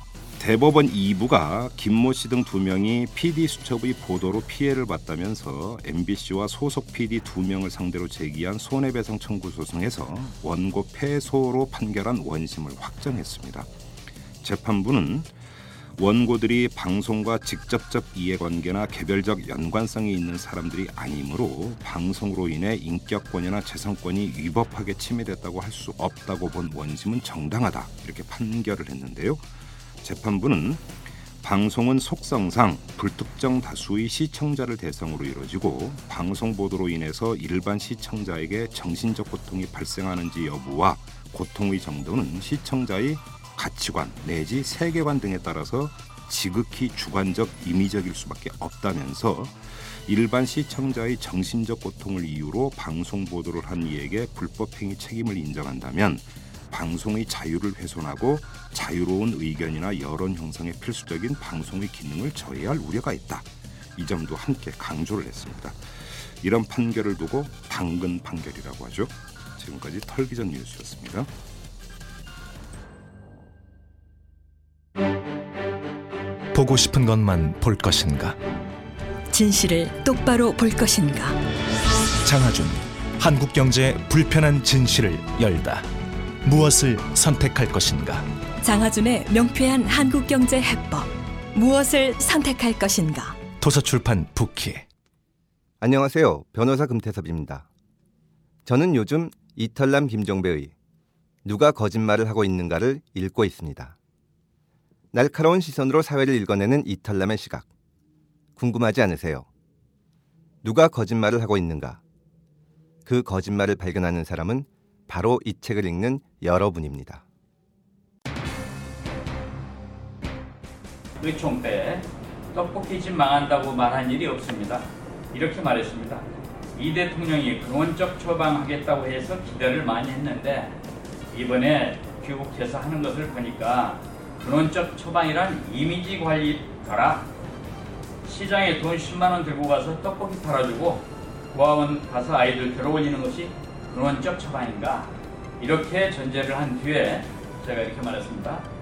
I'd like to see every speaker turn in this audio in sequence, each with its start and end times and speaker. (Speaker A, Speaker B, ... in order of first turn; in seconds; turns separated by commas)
Speaker A: 0.4-13.7, Speaker A: 14.4-15.3, Speaker A: 16.0-29.4, Speaker A: 30.0-30.9, Speaker A: 31.4-71.3, Speaker B: 76.5-78.4, Speaker C: 79.3-81.4, Speaker B: 82.2-85.9, Speaker B: 86.4-88.3, Speaker C: 88.6-93.4, Speaker B: 93.6-94.8, Speaker D: 95.8-97.7, Speaker D: 98.6-100.7, Speaker D: 101.4-103.9, Speaker D: 105.1-107.7, Speaker D: 108.5-109.5, Speaker D: 110.6-112.0, Speaker D: 113.0-117.2, Speaker E: 121.2-126.2, Speaker E: 126.8-130.8, Speaker E: 131.3-137.3, Speaker E: 138.2-148.7